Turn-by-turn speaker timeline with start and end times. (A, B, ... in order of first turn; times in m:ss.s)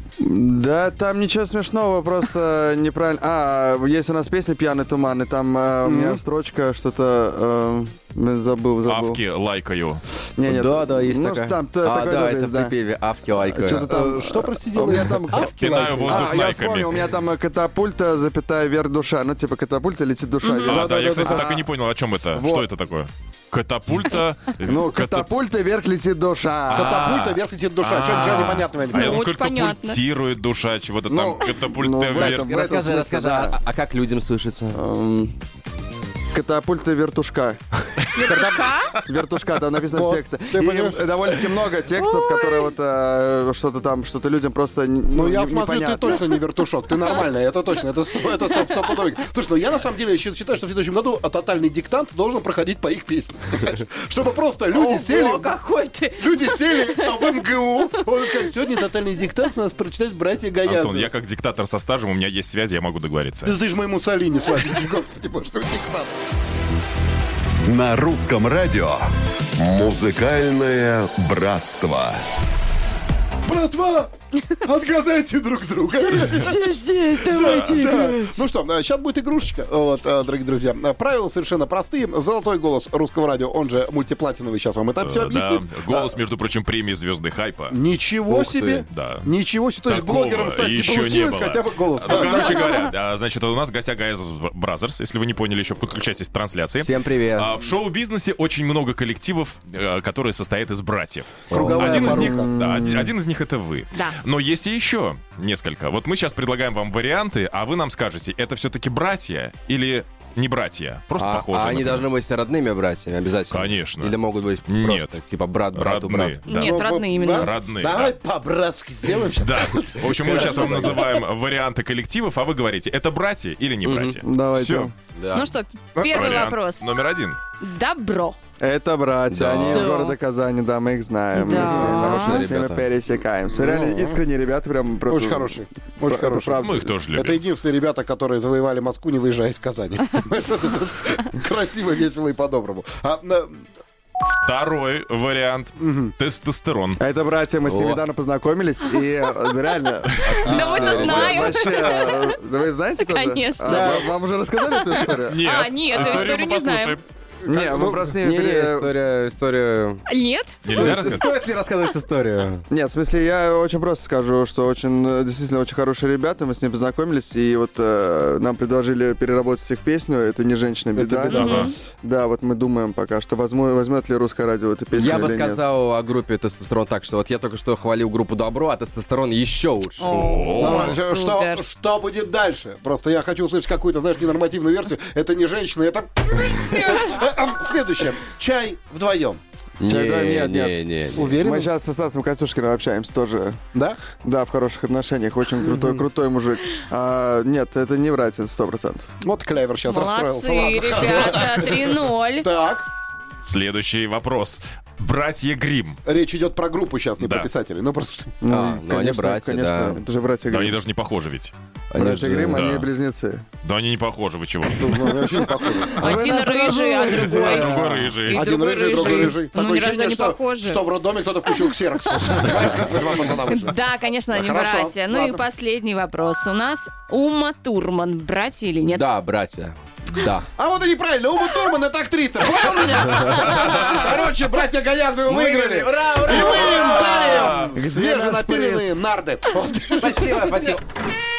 0:00.2-0:09.2 A
0:05.8-0:06.2 B
0:08.8-0:10.0 C
0:10.4-0:12.8 A
0:10.4-0:14.0 D
0:13.4-0:21.6 A
0:13.7-0:16.4 B
0:15.4-0:17.1 C
0:20.4-0:20.8 E
0:20.6-0:25.3 C
0:20.7-0:21.6 B
0:22.3-0:22.7 A
0:24.6-0:27.2 A
0:26.7-0:32.5 C
0:26.7-0:29.2 B
0:29.0-0:30.0 E
0:31.1-0:33.6 A
0:32.1-0:34.8 D
0:34.7-0:35.4 A
0:36.3-0:37.6 A
0:38.1-0:39.0 E
0:38.2-0:46.2 A
0:39.9-0:41.0 B
0:42.1-0:42.6 E
0:45.1-0:55.6 B
0:54.7-0:58.5 E
0:56.2-1:01.1 B
1:00.6-1:03.5 C
1:03.4-1:06.1 B
1:07.6-1:09.1 F
1:09.6-1:12.2 F
1:13.5-1:14.1 B
1:14.6-1:26.2 B
1:16.2-1:18.4 E
1:17.4-1:17.8 C
1:25.0-1:27.8 C
1:27.7-1:32.8 B
1:28.3-1:28.9 D
1:28.9-1:52.1 C
1:36.8-1:37.5 D
1:41.5-1:42.5 B
1:41.5-1:43.1 A
1:41.5-1:42.0 D
1:51.2-1:56.6 D
1:53.5-1:55.2 C
1:55.7-1:56.7 C
1:56.5-2:01.0 B
1:56.5-1:57.5 E
1:57.3-1:58.2 C
1:59.4-2:04.9 C
2:00.2-2:01.0 D
2:03.8-2:04.2 D
2:04.2-2:04.9 A
2:05.2-2:05.5 D
2:05.3-2:06.9 E
2:06.0-2:06.3 B
2:06.0-2:07.4 C
2:07.6-2:08.4 E
2:08.6-2:16.9 A
2:09.3-2:09.9 D
2:09.7-2:10.2 E
2:11.3-2:12.4 E
2:11.5-2:12.9 D
2:13.5-2:14.2 B
2:15.1-2:23.6 B
2:16.6-2:17.4 C
2:24.4-2:27.0 C
2:25.8-2:26.1 B
2:27.0-2:35.5 A
2:27.6-2:28.0 D
2:30.2-2:31.9 D
2:30.4-2:32.3 E
2:33.0-2:34.0 E
2:33.7-2:34.1 B
2:35.0-2:37.0 E
2:35.3-2:37.0 C
2:37.4-2:38.1 B
2:37.5-2:39.0 A
2:38.2-2:40.0 D
2:40.1-2:40.7 E
2:40.6-2:41.3 C
2:40.7-2:42.6 D
2:40.8-2:41.5 A
2:42.7-2:55.6 A
2:51.3-2:51.7 E
2:51.3-2:51.7 C
2:55.0-3:00.2 D
3:00.0-3:01.7 E
3:00.1-3:01.0 C
3:00.5-3:09.4 B
3:09.8-3:11.4 D
3:09.9-3:10.8 A
3:11.2-3:11.7 B
3:11.4-3:13.6 A
3:13.7-3:14.0 B
3:14.2-3:19.1 A
3:15.6-3:16.0 B
3:19.2-3:22.9 B
3:19.8-3:22.5 E
3:23.4-3:26.0 C
3:26.0-3:28.3 B
3:27.2-3:27.5 C
3:28.4-3:30.8 A
3:28.5-3:30.0 D
3:30.5-3:31.5 C
3:31.9-3:32.6 D
3:32.0-3:33.4 A
3:32.5-3:32.9 C
3:33.6-3:35.4 C
3:34.7-3:36.5 B
3:35.8-3:38.2 A
3:36.0-3:36.2 C
3:36.0-3:41.0 E
3:37.1-3:37.7 B
3:37.4-3:39.4 C
3:38.3-3:45.4 B
3:41.5-3:41.8 E
3:43.4-3:49.1 E
3:48.9-3:50.5 D
3:50.6-4:00.8 B
3:53.7-3:54.0 C
3:55.3-3:57.5 D
3:56.4-3:57.7 C
3:57.5-3:59.0 A
4:00.0-4:00.8 D